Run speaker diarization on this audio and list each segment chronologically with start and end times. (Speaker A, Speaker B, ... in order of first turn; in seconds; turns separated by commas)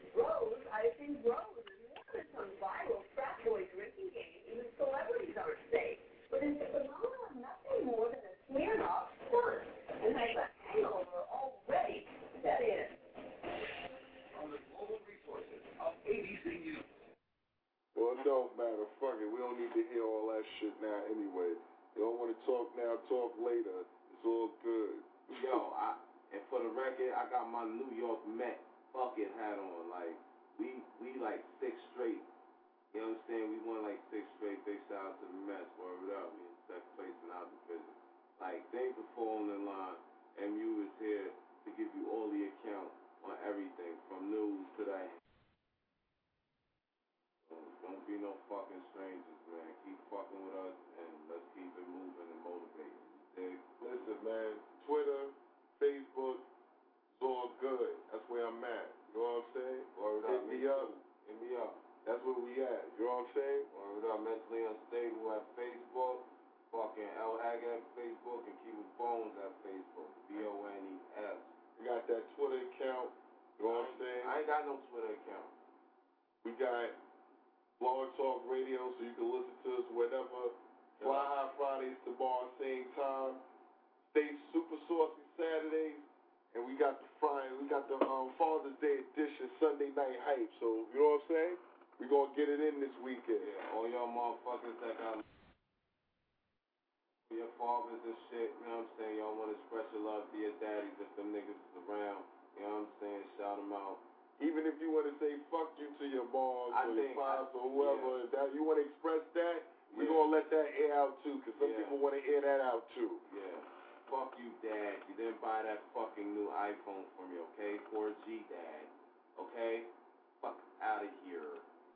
Speaker A: 0.3-6.0, Speaker A: 7.7-8.2, Speaker A: 9.2-9.5, Speaker B: 17.9-25.6, Speaker C: 25.3-32.3, Speaker C: 32.9-45.2, Speaker C: 47.5-53.6, Speaker B: 53.8-56.4, Speaker B: 57.1-60.9, Speaker C: 59.9-61.8, Speaker B: 62.0-63.7, Speaker C: 63.7-71.5, Speaker B: 71.8-74.3, Speaker C: 73.7-75.5, Speaker B: 76.4-77.0, Speaker B: 77.8-83.4, Speaker C: 81.0-81.3, Speaker B: 84.1-93.5, Speaker C: 93.4-95.2, Speaker C: 97.3-104.0, Speaker B: 104.4-113.2, Speaker C: 106.7-108.1, Speaker C: 109.9-110.2, Speaker C: 111.6-112.0, Speaker C: 113.3-119.9, Speaker C: 120.4-121.7